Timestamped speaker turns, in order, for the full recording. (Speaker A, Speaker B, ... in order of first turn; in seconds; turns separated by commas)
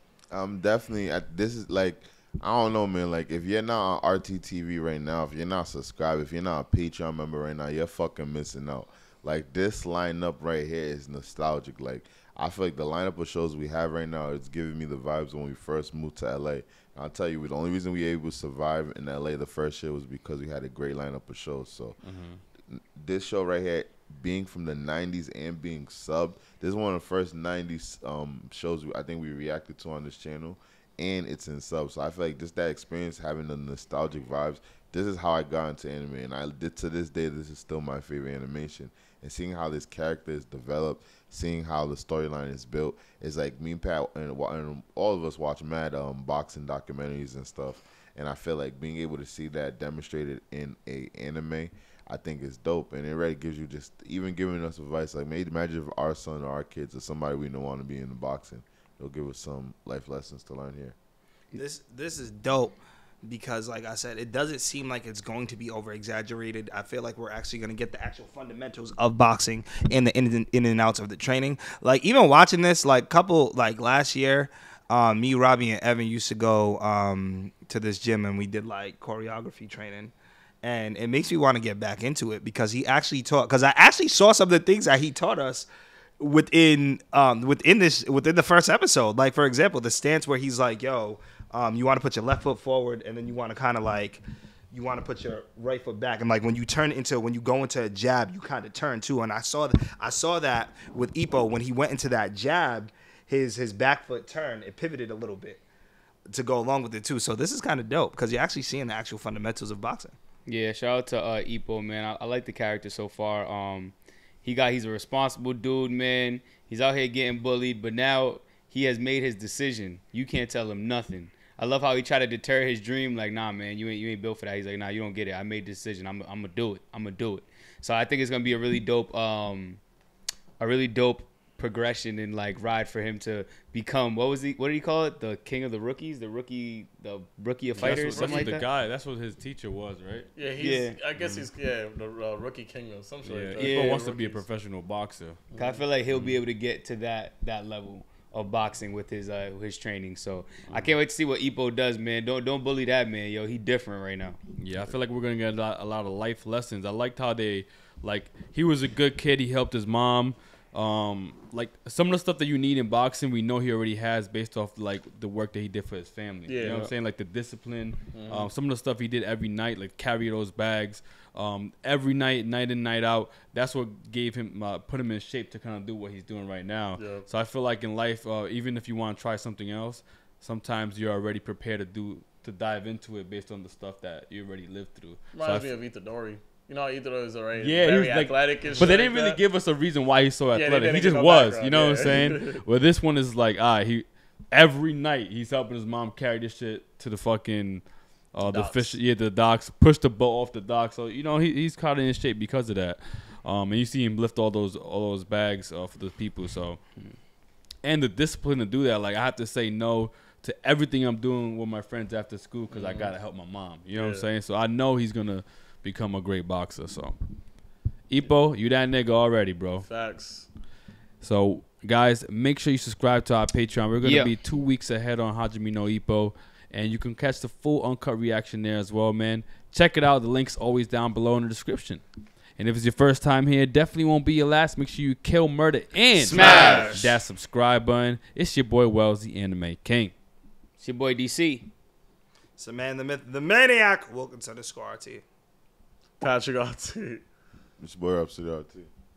Speaker A: 0.3-21.9, Speaker B: 22.0-22.4, Speaker A: 22.7-60.9, Speaker C: 61.5-85.7, Speaker C: 86.2-105.6, Speaker C: 106.3-110.2, Speaker D: 110.5-129.8, Speaker D: 130.6-138.7, Speaker B: 137.8-140.3, Speaker E: 137.8-138.6, Speaker E: 140.3-144.4, Speaker D: 140.6-141.0, Speaker B: 141.2-141.4, Speaker B: 143.2-145.5, Speaker D: 143.6-144.0, Speaker D: 145.6-154.4, Speaker B: 146.1-146.4, Speaker B: 154.6-185.7, Speaker E: 166.4-166.9, Speaker E: 168.1-168.5, Speaker E: 177.0-177.3, Speaker E: 185.3-189.4, Speaker B: 187.6-206.8, Speaker E: 190.5-192.6, Speaker E: 198.5-198.9, Speaker B: 207.8-217.2, Speaker E: 212.7-213.1, Speaker E: 213.9-214.3, Speaker B: 218.1-219.9, Speaker E: 219.8-220.5, Speaker B: 221.2-232.0, Speaker D: 224.0-224.3, Speaker B: 232.6-240.1, Speaker D: 236.3-236.9, Speaker C: 236.3-237.2, Speaker D: 240.8-241.7, Speaker C: 242.6-245.2, Speaker E: 246.2-247.2, Speaker A: 247.8-248.9